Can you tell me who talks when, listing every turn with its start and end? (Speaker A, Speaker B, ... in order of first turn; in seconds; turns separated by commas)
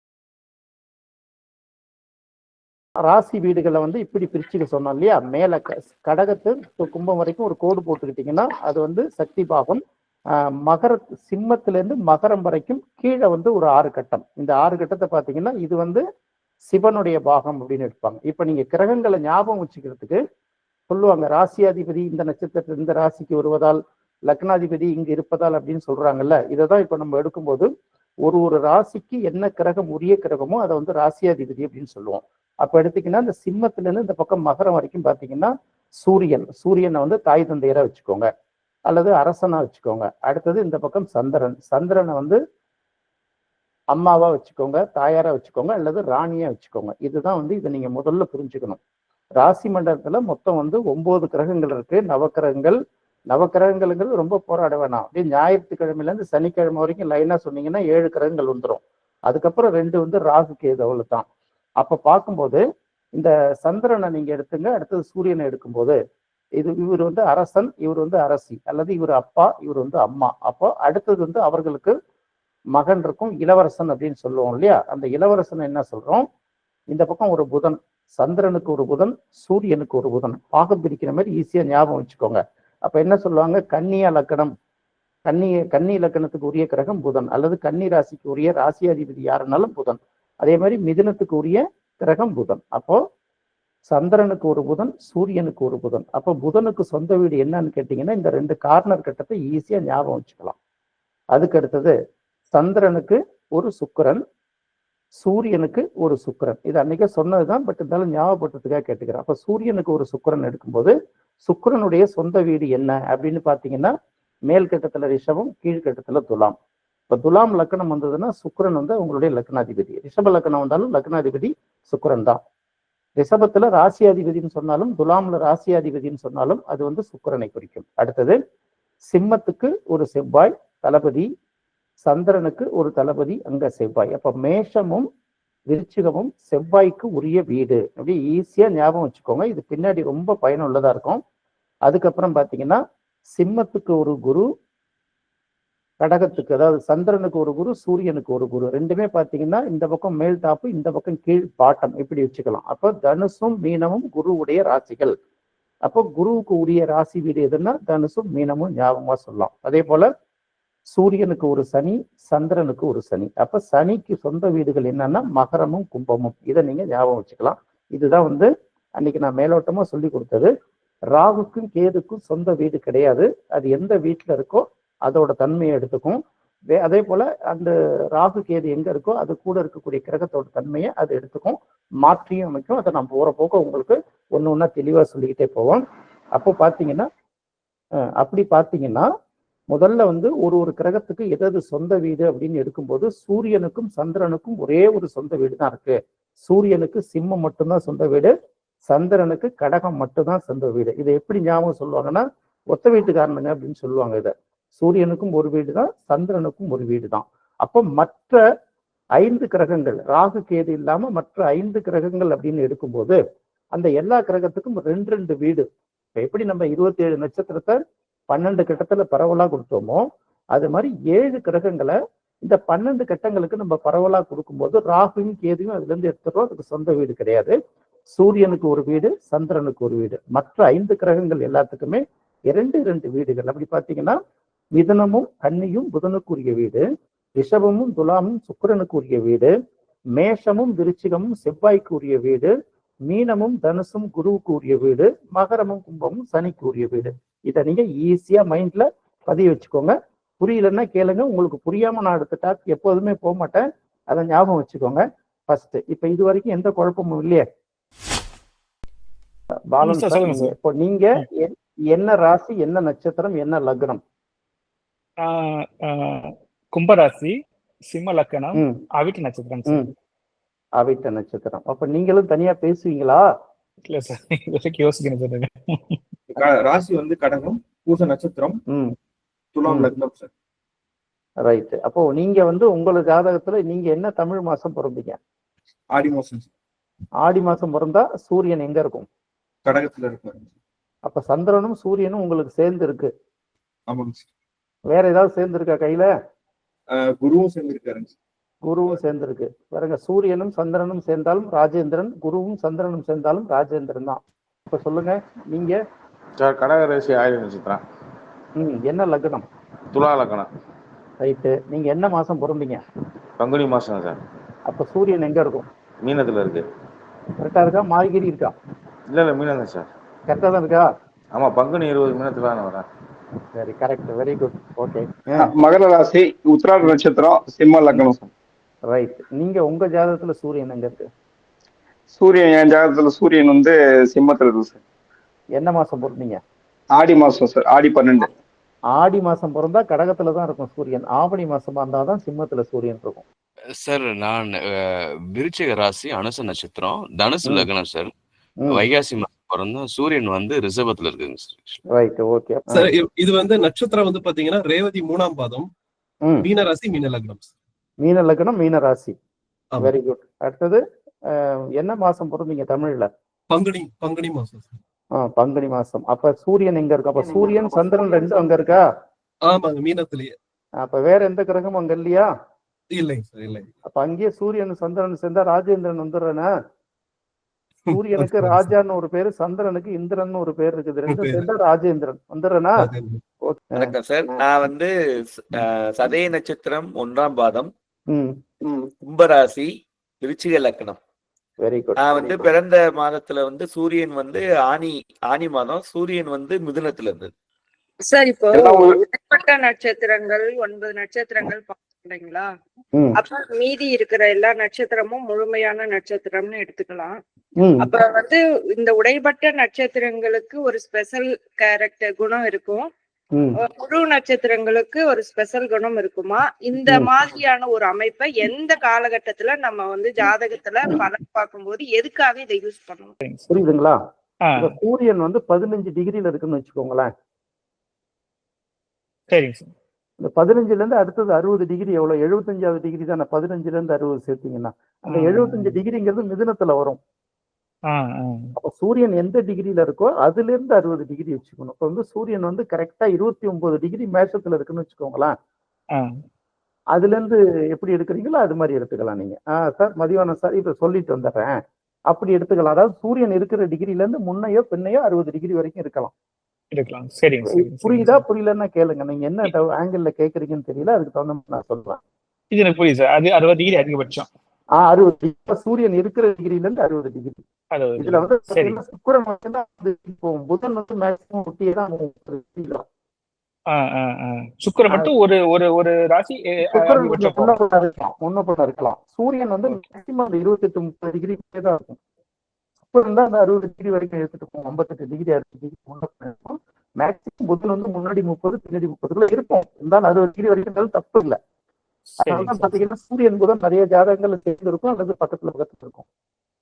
Speaker A: 3.0-9.8, Speaker A: 10.6-16.0, Speaker A: 16.7-20.2, Speaker A: 20.9-27.7, Speaker A: 28.2-35.5, Speaker A: 36.0-38.3, Speaker A: 38.9-42.4, Speaker A: 43.9-48.8, Speaker A: 49.4-52.8, Speaker A: 53.3-61.2, Speaker A: 61.8-62.6, Speaker A: 63.1-66.0, Speaker A: 66.6-71.9, Speaker A: 72.7-76.2, Speaker A: 76.9-84.5, Speaker A: 85.2-93.0, Speaker A: 93.9-100.5, Speaker A: 101.3-101.9, Speaker A: 102.5-104.2, Speaker A: 105.2-110.9, Speaker A: 111.5-113.9, Speaker A: 114.5-116.5, Speaker A: 117.1-122.4, Speaker A: 123.2-128.4, Speaker A: 129.1-131.3, Speaker A: 132.0-135.1, Speaker A: 135.7-141.2, Speaker A: 141.8-142.8, Speaker A: 143.3-144.4, Speaker A: 146.0-155.1, Speaker A: 155.8-160.1, Speaker A: 160.9-170.5, Speaker A: 171.1-176.2, Speaker A: 176.7-185.8, Speaker A: 186.3-187.1, Speaker A: 188.2-189.1, Speaker A: 189.7-198.3, Speaker A: 198.9-208.4, Speaker A: 209.2-213.2, Speaker A: 213.7-215.6, Speaker A: 216.2-217.8, Speaker A: 218.3-227.5, Speaker A: 228.1-234.2, Speaker A: 234.8-236.8, Speaker A: 237.4-239.5, Speaker A: 240.2-242.5, Speaker A: 243.1-257.4, Speaker A: 259.7-264.0, Speaker B: 259.8-260.5, Speaker B: 265.2-267.4, Speaker B: 267.9-269.9, Speaker A: 270.8-273.2, Speaker B: 273.9-276.0, Speaker C: 276.3-278.6, Speaker C: 279.5-280.3, Speaker A: 279.6-279.9, Speaker A: 281.4-285.2, Speaker C: 285.9-286.5, Speaker A: 287.2-289.1, Speaker C: 289.6-290.4, Speaker A: 291.1-293.1, Speaker C: 293.9-294.2, Speaker A: 294.9-296.1, Speaker C: 296.9-298.1, Speaker A: 298.6-305.8, Speaker D: 306.4-307.8, Speaker A: 308.6-309.4, Speaker D: 309.9-310.5, Speaker A: 311.2-312.8, Speaker D: 313.4-314.2, Speaker A: 314.7-315.7, Speaker D: 316.0-316.6, Speaker A: 317.4-318.5, Speaker D: 319.1-319.9, Speaker A: 320.3-320.9, Speaker D: 321.3-322.9, Speaker A: 323.6-325.5, Speaker E: 325.3-328.3, Speaker A: 328.9-331.1, Speaker E: 332.1-334.8, Speaker A: 335.6-336.4, Speaker E: 336.9-338.3, Speaker A: 338.9-343.2, Speaker F: 343.7-348.1, Speaker F: 348.7-351.8, Speaker A: 351.9-352.9, Speaker G: 352.7-355.6, Speaker G: 356.4-357.5, Speaker A: 358.0-359.1, Speaker A: 359.8-363.1, Speaker G: 363.5-364.8, Speaker A: 365.2-368.8, Speaker E: 367.5-367.9, Speaker G: 369.4-370.3, Speaker A: 370.8-372.3, Speaker G: 372.9-373.7, Speaker A: 373.9-376.5, Speaker G: 377.9-378.7, Speaker A: 377.9-382.8, Speaker G: 381.1-381.4, Speaker G: 382.8-383.2, Speaker A: 383.5-384.4, Speaker H: 383.7-387.7, Speaker E: 388.6-388.9, Speaker H: 389.0-391.0, Speaker A: 391.6-392.5, Speaker H: 392.0-397.3, Speaker I: 398.1-402.5, Speaker E: 398.5-399.0, Speaker I: 403.2-407.1, Speaker A: 407.6-407.9, Speaker I: 407.8-412.9, Speaker I: 413.6-423.1, Speaker B: 423.2-423.5, Speaker A: 423.5-424.0, Speaker B: 424.4-424.8, Speaker A: 424.6-427.1, Speaker B: 429.3-429.7, Speaker A: 430.2-437.0, Speaker B: 435.1-435.8, Speaker B: 437.9-438.5, Speaker A: 438.6-445.3, Speaker A: 446.9-451.6, Speaker A: 452.1-456.1, Speaker B: 456.7-458.2, Speaker A: 457.5-462.0, Speaker B: 462.5-464.3, Speaker A: 464.8-467.4, Speaker B: 467.7-468.8, Speaker A: 468.0-472.8, Speaker B: 473.7-477.6, Speaker A: 476.7-482.0, Speaker A: 482.8-491.4, Speaker B: 492.2-492.8, Speaker A: 492.2-496.0